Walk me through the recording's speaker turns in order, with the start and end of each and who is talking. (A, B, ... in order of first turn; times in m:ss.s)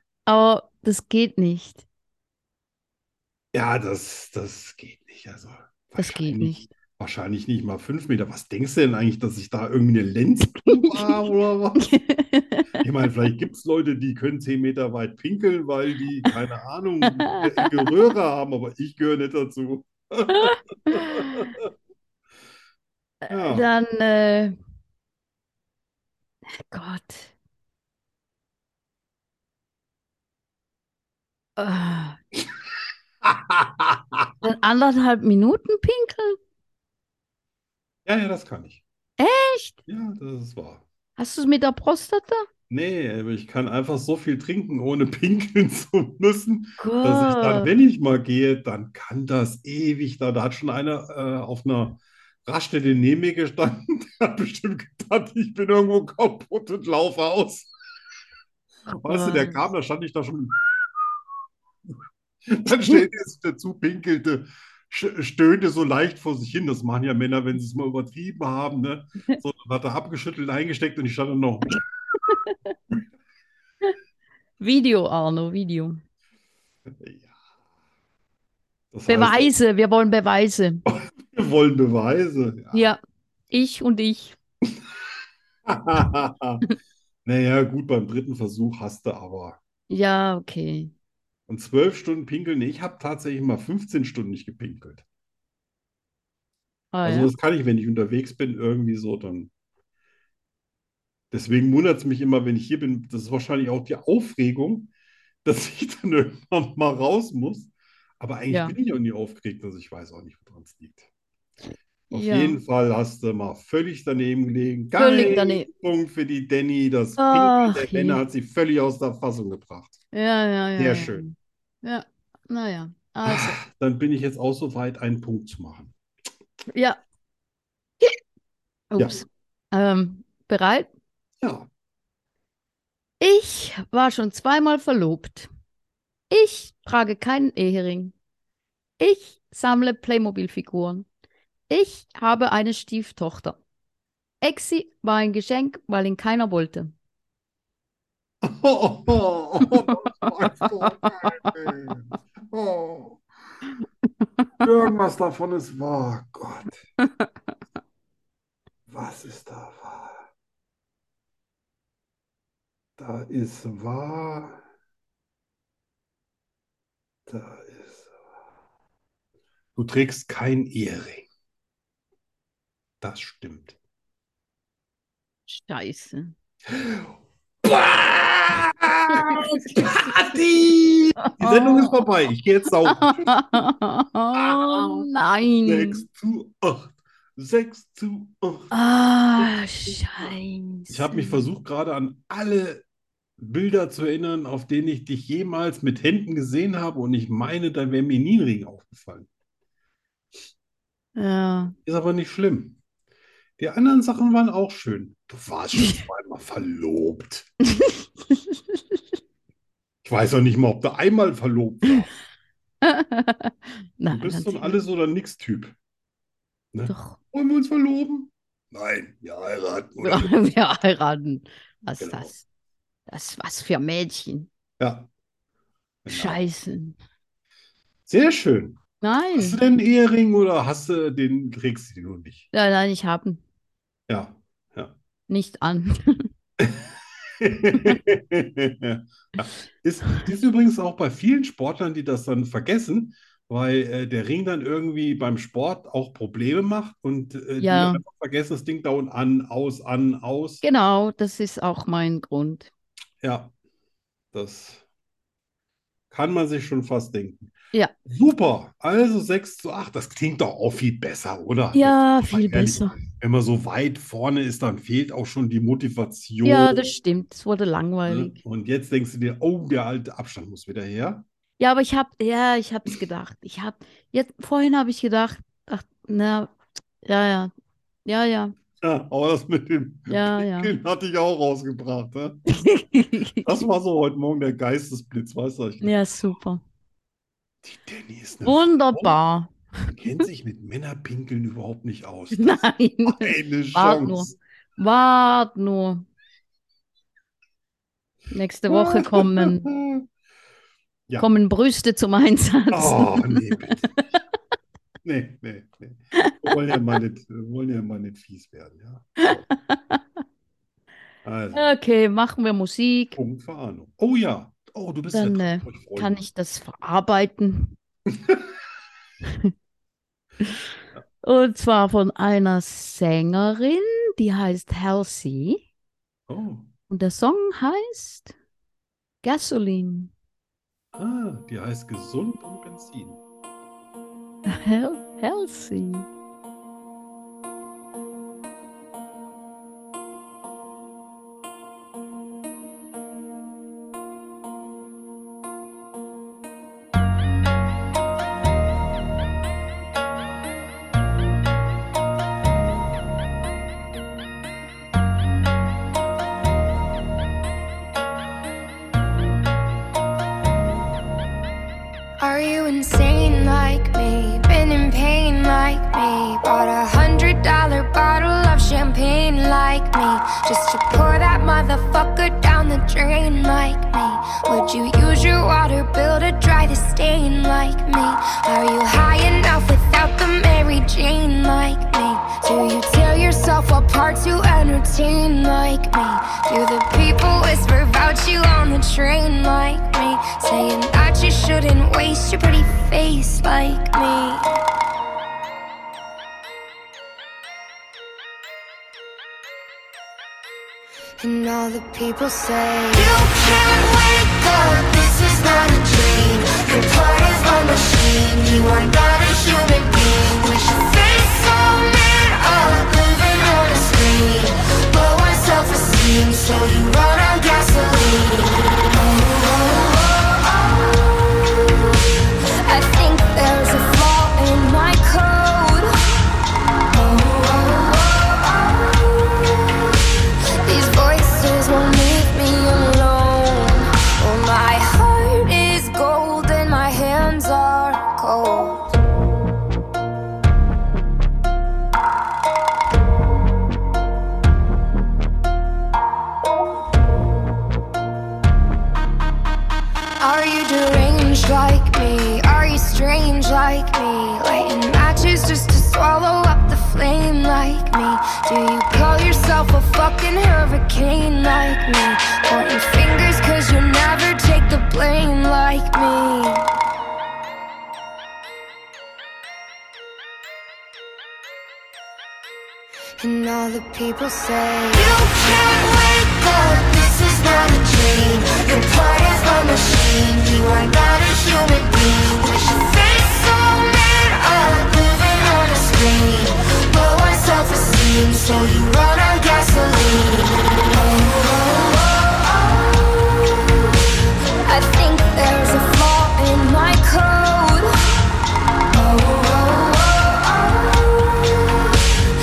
0:00.2-0:01.8 A
0:03.5-0:11.9 B
0:06.0-0:06.7 A
0:10.7-0:11.1 A
0:11.8-0:12.7 A
0:12.8-0:21.6 B
0:20.3-0:21.5 A
0:23.2-0:24.5 A
0:23.3-0:23.7 B
0:26.6-0:27.3 A
0:31.6-0:32.2 A
0:33.2-0:34.3 B
0:34.4-0:36.4 A
0:38.0-0:38.8 B
0:39.2-0:39.8 A
0:39.9-0:40.8 B
0:41.2-0:42.4 A
0:42.7-0:57.7 B
0:46.8-0:47.7 A
0:58.9-0:59.6 A
0:59.0-1:01.0 B
1:02.4-1:11.8 B
1:12.3-1:12.7 A
1:14.6-1:16.0 A
1:16.9-1:17.3 B
1:18.9-1:19.5 B
1:19.1-1:20.8 A
1:20.9-1:22.9 B
1:22.7-1:23.0 A
1:23.5-1:24.4 A
1:25.6-1:26.6 B
1:27.2-1:29.6 B
1:29.9-1:30.9 A
1:31.5-1:35.0 B
1:36.9-1:37.3 A
1:37.0-1:39.5 B
1:41.3-1:44.9 B
1:45.4-1:51.1 B
1:48.5-1:48.8 A
1:52.1-1:52.6 A
1:52.1-2:00.0 B
1:55.0-1:55.7 A
1:57.2-1:58.2 A
2:00.1-2:03.6 A
2:00.8-2:01.2 B
2:03.2-2:05.9 B
2:06.7-2:07.0 A
2:08.9-2:10.9 A
2:11.4-2:11.7 B
2:13.2-2:15.5 A
2:16.3-2:18.1 A
2:19.0-2:21.0 A
2:21.7-2:23.6 A
2:24.4-2:26.9 A
2:28.4-2:33.2 B
2:29.8-2:30.1 A
2:30.8-2:31.5 A
2:34.6-2:36.8 B
2:38.9-2:40.2 B
2:43.0-2:44.6 B
2:47.3-2:48.1 B
2:49.8-2:51.3 B
2:53.0-2:53.8 B
2:55.5-2:56.3 A
2:56.7-3:03.5 B
2:59.1-2:59.9 A
3:01.2-3:02.0 A
3:02.8-3:06.0 A
3:04.3-3:05.1 B
3:05.6-3:08.7 B
3:08.7-3:11.4 A
3:10.9-3:12.8 B
3:13.4-3:19.3 B
3:21.2-3:21.7 A
3:21.8-3:22.8 B
3:23.6-3:27.5 B
3:27.6-3:28.8 A
3:30.0-3:32.1 B
3:32.8-3:34.8 A
3:34.1-3:35.8 B
3:36.7-3:40.3 B
3:36.9-3:37.2 A
3:40.0-3:42.4 A
3:42.0-3:42.3 B
3:43.1-3:44.5 A
3:44.8-3:45.1 B
3:46.0-3:46.4 B
3:46.1-3:47.0 A
3:48.1-3:48.8 B
3:49.0-3:49.6 A
3:49.3-3:52.5 B
3:52.5-3:53.4 A
3:54.1-3:54.9 B
3:55.3-3:56.3 A
3:57.4-4:10.6 B
4:07.6-4:08.0 A
4:10.6-4:12.7 A
4:13.2-4:13.5 B
4:14.3-4:14.8 B
4:16.1-4:17.5 B
4:18.0-4:26.9 B
4:21.7-4:23.0 A
4:26.4-4:28.4 A
4:28.0-4:31.2 B
4:31.6-4:36.5 A
4:37.0-4:37.5 A
4:38.0-4:38.5 A
4:38.8-4:42.4 B
4:40.1-4:40.7 A
4:42.5-4:43.5 A
4:43.4-4:46.0 B
4:45.8-4:46.6 A
4:47.6-4:49.2 B
4:48.4-4:49.5 A
4:49.9-4:54.4 B
4:52.3-4:56.0 A
4:58.3-4:59.7 A
4:58.7-5:00.0 B
5:01.2-5:04.2 A
5:02.7-5:04.0 B
5:05.0-5:09.4 B
5:06.1-5:06.5 A
5:09.2-5:10.0 A
5:11.2-5:11.7 B
5:11.5-5:13.2 A
5:13.2-5:16.2 B
5:15.1-5:17.8 A
5:18.1-5:18.4 B
5:19.2-5:19.5 A
5:21.2-5:25.6 A
5:26.3-5:26.7 B
5:26.9-5:28.3 A
5:29.2-5:30.1 A
5:30.9-5:33.2 B
5:34.5-5:36.1 A
6:02.2-6:34.6 C
6:41.2-7:00.5 C
7:02.6-7:05.9 C
7:06.9-7:08.8 C
7:10.6-7:18.9 C
7:30.2-7:46.7 C
7:53.2-8:12.4 C
8:14.6-8:17.9 C
8:18.9-8:20.7 C